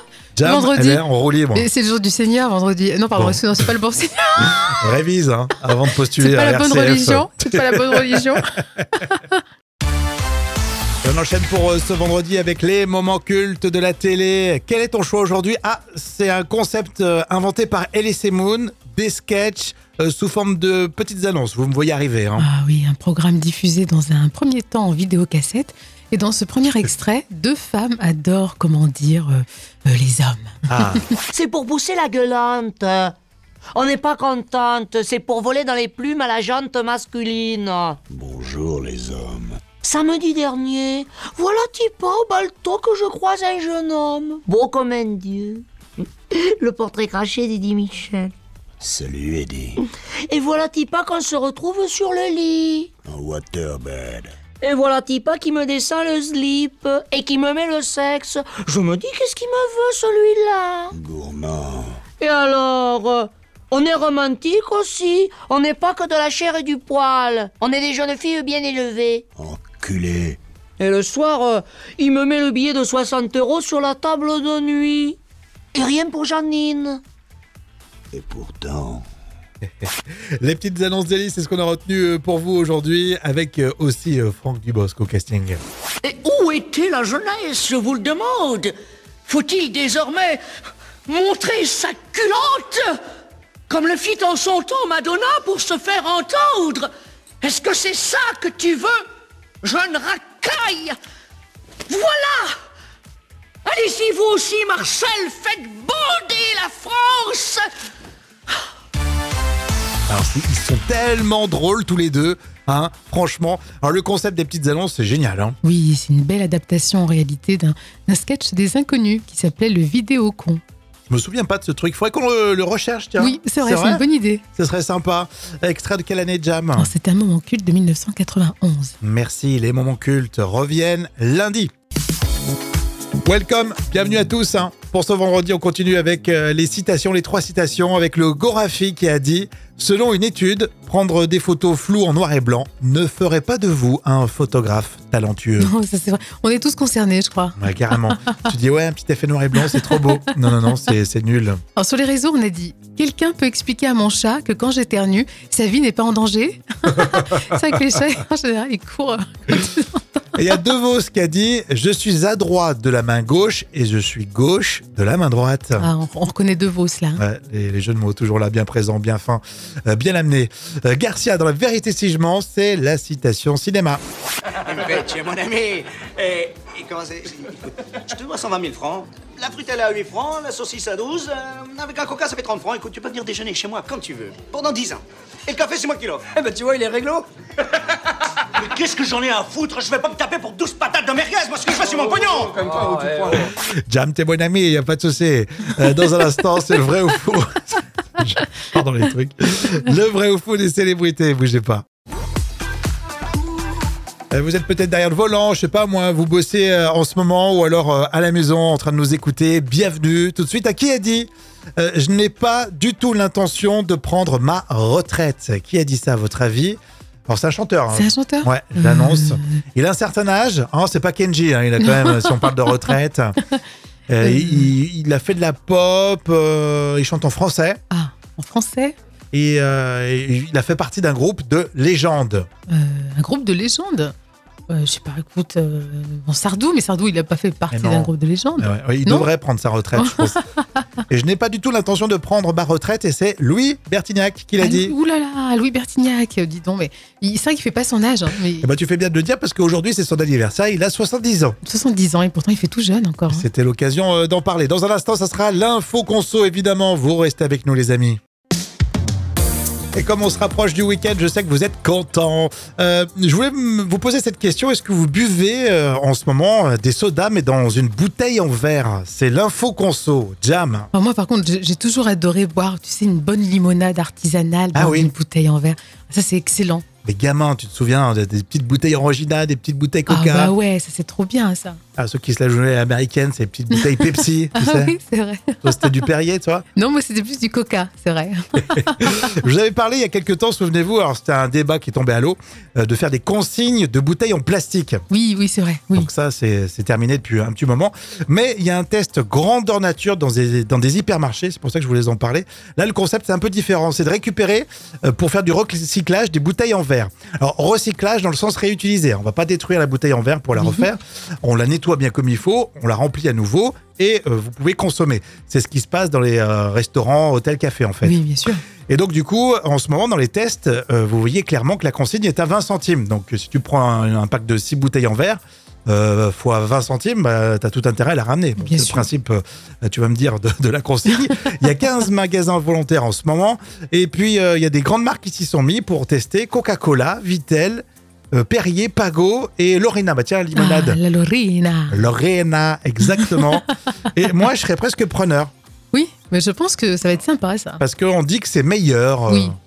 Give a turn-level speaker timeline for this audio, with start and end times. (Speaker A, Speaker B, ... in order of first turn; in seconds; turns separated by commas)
Speaker A: 0.3-1.7, Speaker B: 0.4-1.0, Speaker B: 1.5-4.8, Speaker A: 3.1-3.7, Speaker A: 4.4-8.4, Speaker B: 6.2-9.4, Speaker A: 11.0-22.5, Speaker B: 22.4-30.9, Speaker A: 30.7-31.0, Speaker C: 31.3-33.1, Speaker C: 33.7-38.0, Speaker D: 38.1-39.6, Speaker C: 39.8-45.6, Speaker C: 46.3-48.3, Speaker D: 48.8-49.8, Speaker C: 50.3-52.9, Speaker D: 53.0-54.3, Speaker C: 54.6-60.9, Speaker D: 60.9-62.0, Speaker C: 62.2-69.2, Speaker D: 69.4-70.4, Speaker C: 70.8-75.2, Speaker C: 75.7-77.0, Speaker D: 78.1-79.0, Speaker A: 79.6-85.6, Speaker C: 86.0-88.7, Speaker C: 89.3-90.3, Speaker E: 89.3-90.4, Speaker C: 91.1-92.8, Speaker E: 91.4-92.6, Speaker E: 93.7-95.1, Speaker C: 94.6-96.9, Speaker E: 95.6-96.3, Speaker E: 97.4-98.9, Speaker E: 99.6-100.9, Speaker C: 99.9-100.7, Speaker E: 101.9-102.3, Speaker E: 103.7-107.5, Speaker C: 104.0-104.6, Speaker C: 105.8-106.9, Speaker A: 110.1-115.6, Speaker B: 115.6-120.6, Speaker A: 121.1-124.0, Speaker B: 123.2-124.4, Speaker A: 124.5-126.9, Speaker B: 126.8-128.9, Speaker A: 129.0-131.7, Speaker A: 133.2-145.7, Speaker B: 145.6-148.1, Speaker A: 147.6-151.6, Speaker B: 149.6-150.7, Speaker B: 151.8-160.0, Speaker A: 160.3-165.9, Speaker B: 165.8-167.2, Speaker A: 167.2-174.0, Speaker F: 174.7-177.5, Speaker F: 178.1-187.3, Speaker F: 188.6-193.3, Speaker A: 193.3-201.8, Speaker A: 204.3-223.3, Speaker B: 217.9-219.6, Speaker B: 221.8-222.9, Speaker A: 224.1-227.8, Speaker B: 224.2-224.7, Speaker B: 227.9-228.9, Speaker A: 229.3-232.5, Speaker B: 232.7-234.1, Speaker B: 234.7-239.3, Speaker A: 237.7-240.4, Speaker B: 239.9-240.4, Speaker A: 241.1-244.9, Speaker B: 244.6-248.7, Speaker A: 248.6-251.6, Speaker B: 251.6-253.4, Speaker A: 253.3-258.2, Speaker A: 259.9-270.9, Speaker B: 270.9-276.8, Speaker A: 274.7-275.1, Speaker A: 277.0-280.5, Speaker B: 280.1-281.8, Speaker A: 282.0-284.9, Speaker B: 283.7-285.9, Speaker A: 285.6-286.6, Speaker B: 286.8-288.9, Speaker A: 288.7-295.0, Speaker B: 295.1-296.1, Speaker A: 295.9-318.2, Speaker B: 310.6-310.9, Speaker B: 318.0-318.6, Speaker A: 318.9-341.0, Speaker B: 328.6-329.1, Speaker B: 340.5-342.1, Speaker A: 341.9-345.5, Speaker B: 343.1-343.5, Speaker B: 345.9-347.8, Speaker A: 347.8-349.5